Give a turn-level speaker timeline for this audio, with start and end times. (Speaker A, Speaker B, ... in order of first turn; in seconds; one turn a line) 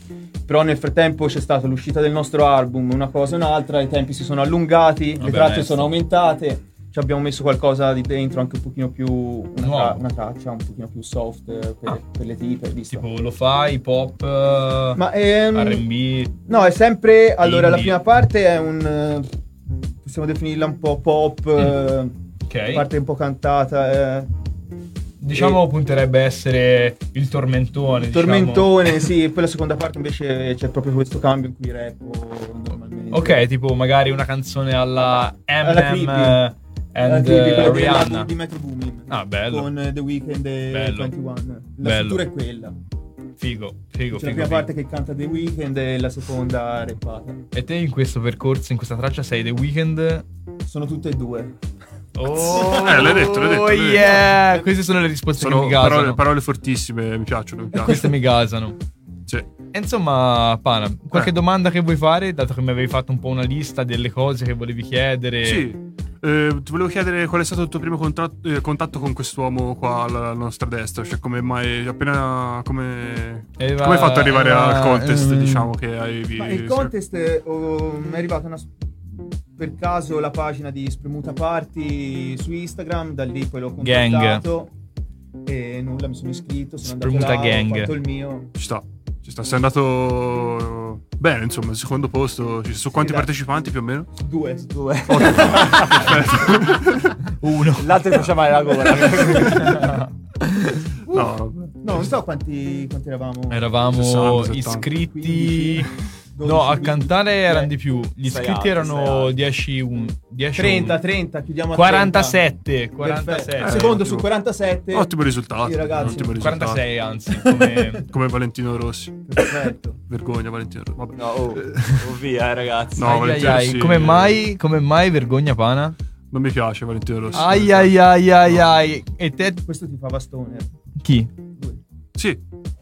Speaker A: 0.5-13.0
Speaker B: 5.2-5.9
Speaker B: 9.6-10.0
Speaker B: 12.9-16.4
Speaker A: 15.0-15.8
Speaker A: 16.5-19.3
Speaker B: 17.4-18.0
Speaker A: 20.0-22.2
Speaker B: 22.5-22.9
Speaker A: 22.7-24.3
Speaker B: 25.2-28.9
Speaker A: 25.3-25.6
Speaker A: 28.0-33.4
Speaker B: 33.1-38.3
Speaker A: 35.6-36.4
Speaker A: 37.0-42.8
Speaker B: 39.1-39.7
Speaker B: 40.7-41.1
Speaker B: 41.8-42.2
Speaker B: 43.4-44.7
Speaker A: 44.1-47.4
Speaker B: 47.5-50.2
Speaker A: 50.6-51.5
Speaker B: 52.2-56.2
Speaker A: 52.4-53.0
Speaker C: 52.7-54.3
Speaker C: 55.4-58.1
Speaker B: 57.8-58.8
Speaker B: 59.7-65.7
Speaker C: 65.4-76.9
Speaker B: 73.6-75.7
Speaker A: 76.4-84.7
Speaker B: 83.8-84.4
Speaker A: 85.5-88.5
Speaker B: 86.8-87.9
Speaker C: 88.6-94.1
Speaker A: 92.9-93.3
Speaker A: 94.2-95.8
Speaker D: 94.8-96.1
Speaker C: 95.1-97.1
Speaker B: 97.4-98.0
Speaker D: 97.8-99.8
Speaker B: 99.3-100.9
Speaker C: 101.1-101.8
Speaker A: 101.8-103.7
Speaker B: 103.5-105.9
Speaker C: 103.9-104.9
Speaker A: 105.1-107.7
Speaker B: 106.4-111.0
Speaker D: 108.2-109.4
Speaker A: 110.6-112.4
Speaker B: 111.7-114.0
Speaker A: 113.0-116.2
Speaker C: 113.6-114.3
Speaker C: 114.9-117.0
Speaker B: 116.0-118.0
Speaker A: 117.5-117.9
Speaker C: 118.1-119.3
Speaker A: 119.3-120.0
Speaker C: 120.1-121.8
Speaker D: 121.2-123.5
Speaker C: 123.0-124.4
Speaker B: 123.0-126.0
Speaker C: 126.3-128.0
Speaker B: 127.3-129.6
Speaker A: 129.7-130.7
Speaker B: 131.0-131.3
Speaker A: 131.5-131.8